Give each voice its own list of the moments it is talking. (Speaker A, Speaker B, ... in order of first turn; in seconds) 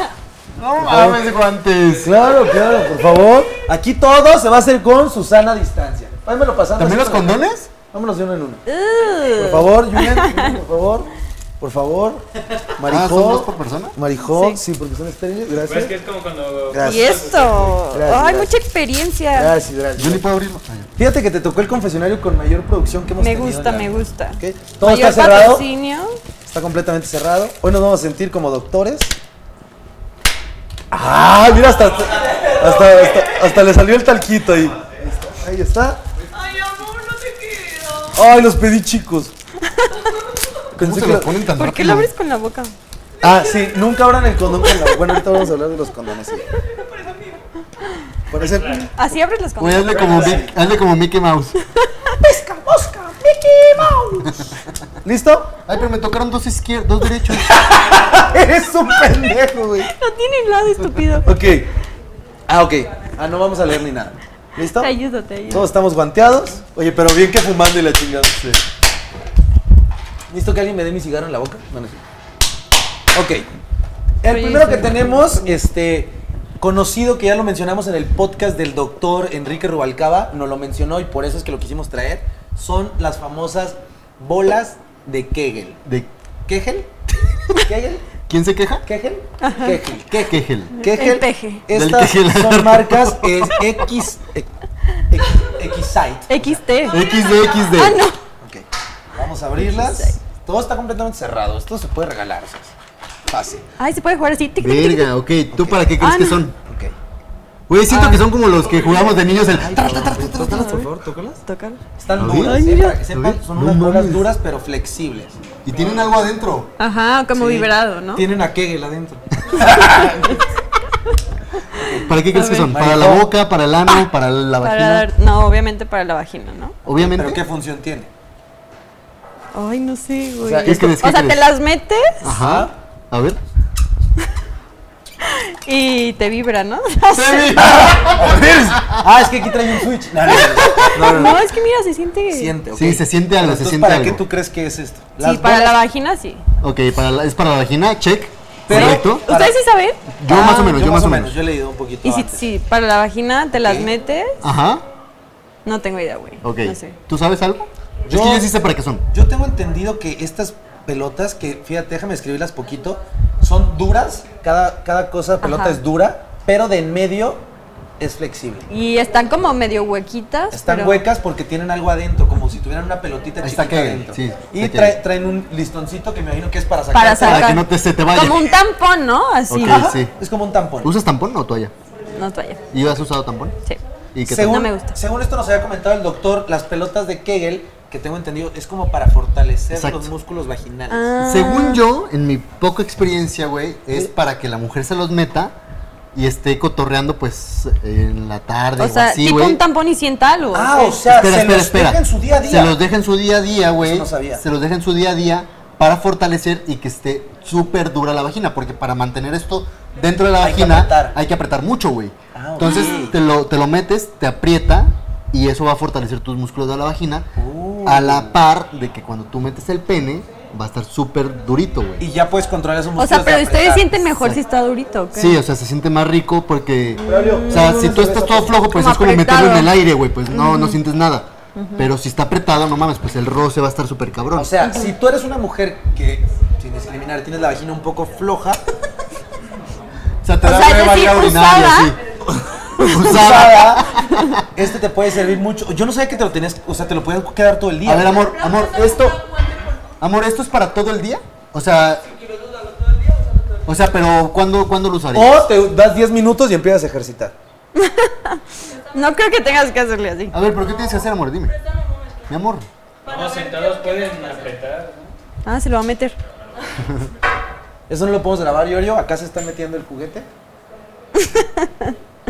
Speaker A: 0.6-2.2, 6.8-7.7, 12.8-13.9, 20.0-20.9, 40.8-42.1, 49.6-51.6, 55.6-57.6, 85.8-86.1, 88.3-88.8, 90.2-90.8, 91.7-93.6, 96.9-98.0, 104.6-106.5, 107.7-110.5, 112.2-112.6, 113.1-114.3, 115.6-116.7, 122.0-125.1, 126.8-127.4, 130.6-131.5, 132.2-133.4, 137.1-139.0, 142.7-144.2, 146.6-149.3, 150.2-151.4, 154.4-154.8, 156.4-159.1, 173.4-175.0, 177.2-178.6, 179.5-180.1, 180.8-181.7, 182.7-183.6, 184.1-184.6, 189.7-190.1, 191.2-195.5, 196.1-199.6, 201.0-217.3, 217.8-222.1, 225.1-234.7, 240.2-242.0, 242.8-244.5, 247.8-249.2, 250.0-252.1, 253.6-255.4, 260.3-261.5, 262.3-262.7, 266.8-267.1
Speaker B: 0.8-1.4, 2.0-8.6, 9.2-15.9, 16.7-18.5, 19.3-20.3, 20.9-25.7, 26.4-29.1, 30.9-36.0, 38.1-39.3, 40.7-41.4, 43.2-46.5, 48.3-48.9, 50.0-50.5, 52.2-54.5, 55.0-55.5, 57.4-59.9, 61.2-61.7, 62.5-64.9, 65.5-68.4, 70.3-72.0, 73.1-73.5, 74.2-85.8, 86.5-86.9, 87.5-88.0, 88.8-94.5, 95.1-96.6, 98.4-102.7, 103.3-103.7, 105.5-105.8, 106.6-106.9, 109.5-111.4, 112.0-116.2, 117.3-120.4, 121.7-122.1, 122.7-123.3, 126.9-128.1, 130.4-130.9, 132.2-132.7, 137.6-141.4, 142.3-145.8, 148.7-149.6, 150.3-152.4, 153.6-153.9, 158.1-158.5, 159.1-167.4, 168.0-168.7, 170.5-177.6, 179.6-180.9, 184.2-191.2, 200.5-202.8, 203.8-204.4, 210.4-211.2, 212.3-213.2, 217.3-218.4, 222.0-224.0, 227.0-228.6, 234.3-238.7, 242.9-244.0, 244.5-248.2, 255.1-257.3, 267.9-270.3
Speaker C: 8.7-10.6, 14.3-14.6, 16.8-19.5, 23.2-26.2, 39.7-40.0, 41.6-42.7, 48.9-50.4, 59.8-61.4, 64.8-65.7, 74.3-75.4, 89.4-89.8, 90.8-91.6, 96.3-98.2, 99.6-100.2, 103.8-105.1, 106.0-106.4, 107.9-109.1, 110.0-110.9, 111.5-113.0, 116.8-118.3, 119.8-120.4, 122.3-122.7, 124.6-126.7, 129.5-132.2, 135.2-137.7, 140.2-142.5, 145.2-146.4, 148.7-150.8, 152.0-154.4, 155.6-157.0, 165.4-165.8, 168.7-171.0, 176.9-179.9, 182.1-182.7, 184.4-184.9, 190.9-191.8, 198.8-201.0, 212.6-213.0, 223.0-225.4, 227.0-228.0, 228.7-229.7, 230.3-230.8, 231.6-231.9, 234.6-234.9, 240.4-242.0, 257.7-260.4, 265.4-266.1, 271.2-271.9
Speaker D: 15.6-17.8, 48.4-48.9, 263.0-265.1
Speaker E: 32.2-33.0, 36.3-38.2, 46.5-47.4, 96.9-97.8, 248.1-250.0, 252.0-253.9, 258.6-259.8, 260.4-262.3, 263.0-264.6